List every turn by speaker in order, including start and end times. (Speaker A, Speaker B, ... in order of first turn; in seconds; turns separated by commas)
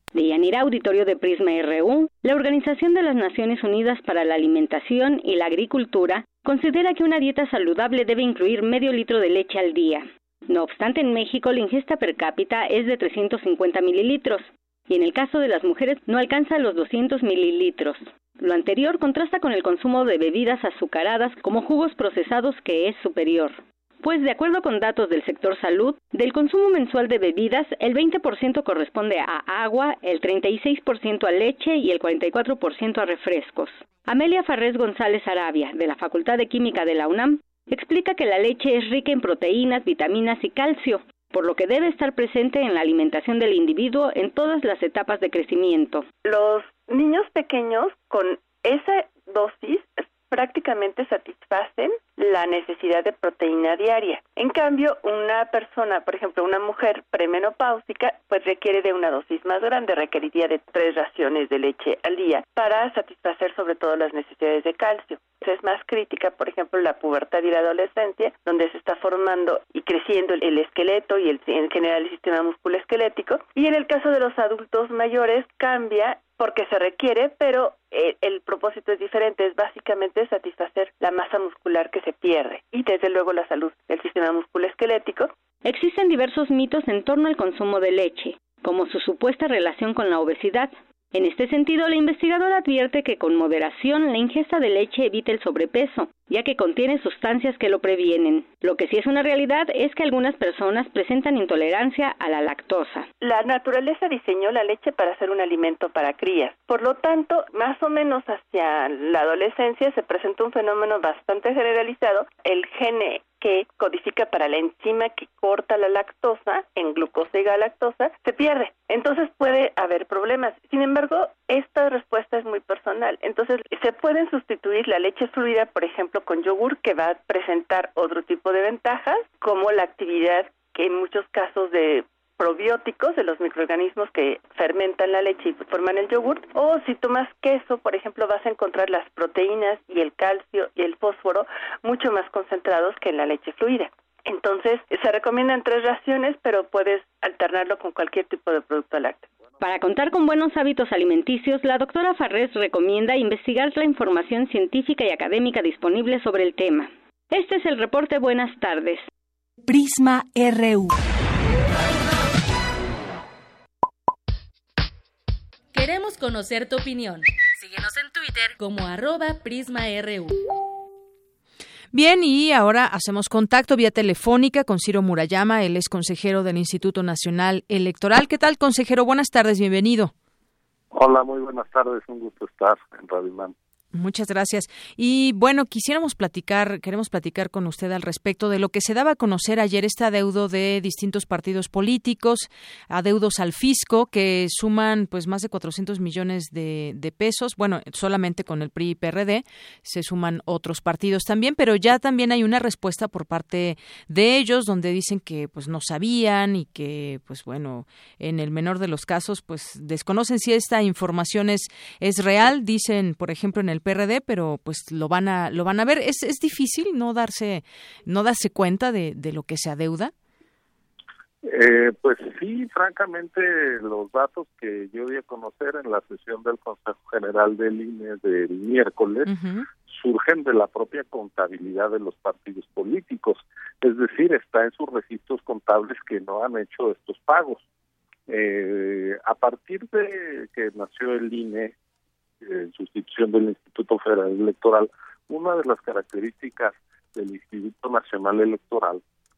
Speaker A: 0.1-46.1, Speaker B: 46.2-85.3, Speaker A: 85.6-103.1, Speaker B: 103.2-149.3, Speaker A: 149.6-159.1, Speaker C: 165.7-170.4, Speaker D: 171.9-180.1, Speaker E: 180.9-183.5, Speaker D: 183.9-220.1, Speaker E: 221.4-237.6, Speaker D: 229.3-229.7, Speaker E: 238.3-241.7, Speaker E: 242.4-249.0